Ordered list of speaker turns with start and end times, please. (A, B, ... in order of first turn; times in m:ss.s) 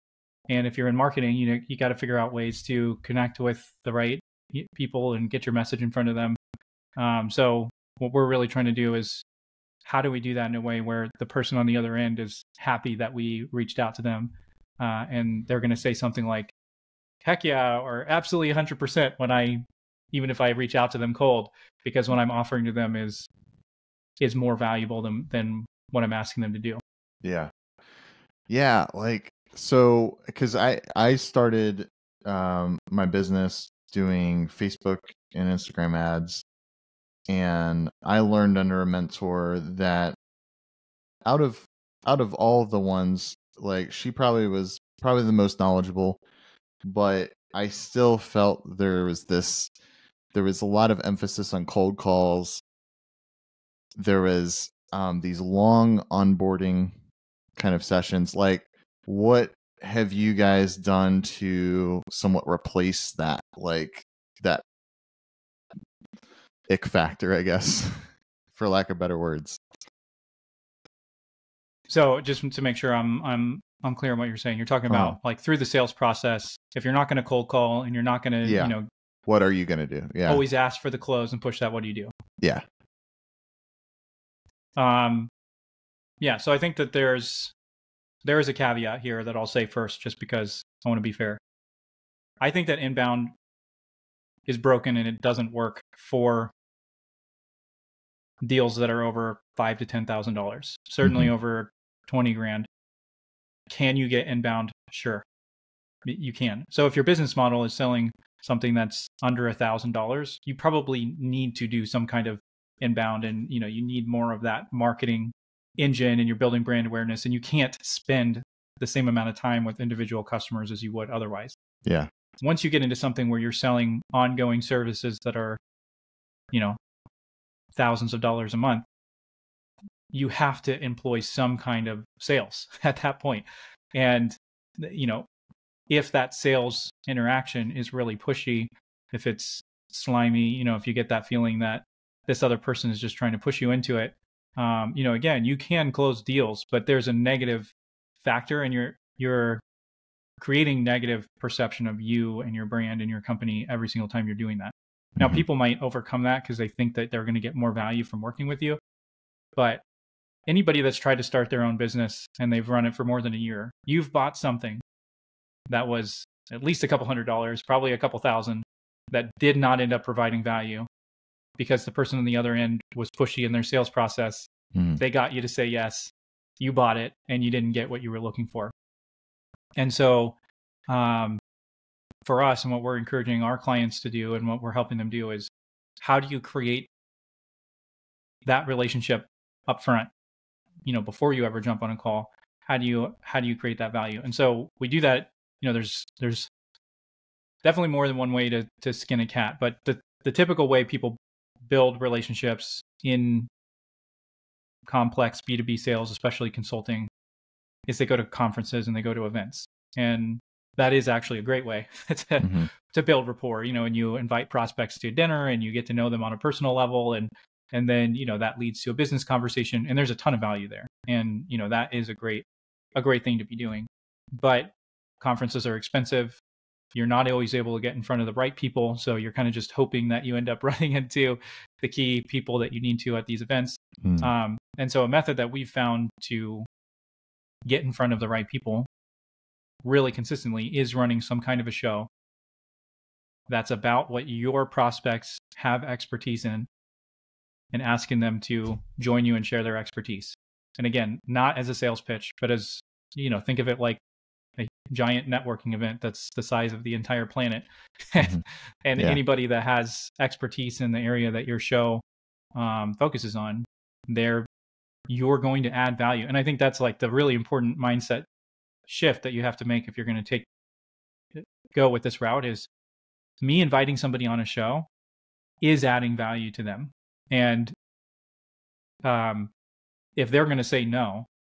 0:00.5-0:06.4 A
0:07.0-0:09.2 A
0:09.8-0:16.5 A
0:17.2-0:23.3 A
0:24.2-0:26.8 A
0:27.2-0:27.5 B
0:28.5-0:36.4 B
0:37.3-0:40.2 B
0:41.2-0:46.2 B
0:46.8-0:49.7 B
0:50.3-0:52.6 B
0:54.0-0:57.0 B
0:57.6-1:04.6 B
1:06.7-1:09.6 B
1:11.9-1:18.9 A
1:14.9-1:15.2 B
1:18.4-1:18.8 B
1:19.3-1:20.4 B
1:20.3-1:22.1 A
1:24.8-1:25.3 A
1:26.2-1:27.5 A
1:28.2-1:31.4 A
1:32.4-1:33.3 A
1:34.5-1:36.5 A
1:38.4-1:42.7 A
1:41.0-1:41.3 B
1:43.7-1:45.2 A
1:46.0-2:01.6 A
2:02.4-2:05.6 A
2:06.5-2:06.8 A
2:07.8-2:08.8 A
2:10.1-2:15.3 A
2:15.9-2:29.6 A
2:30.4-2:38.8 A
2:39.6-2:39.8 A
2:40.5-2:44.8 A
2:45.7-2:50.9 A
2:51.6-2:58.7 A
2:54.7-2:55.0 B
2:59.8-3:00.4 A
3:00.9-3:01.4 A
3:02.2-3:06.9 A
3:08.4-3:10.1 A
3:10.8-3:16.5 A
3:17.6-3:23.5 A
3:24.9-3:27.1 A
3:27.9-3:46.4 A
3:32.4-3:32.7 B
3:46.9-3:56.7 A
3:54.0-3:54.3 B
3:57.6-3:58.9 A
3:59.8-4:02.1 A
4:03.5-4:06.7 A
4:07.7-4:14.0 A
4:14.6-4:22.0 A
4:22.6-4:24.5 A
4:25.1-4:28.3 A
4:28.9-4:30.5 A
4:31.3-4:32.7 A
4:33.4-4:34.9 A
4:35.6-4:37.7 A
4:39.0-4:39.5 A
4:40.2-4:41.3 A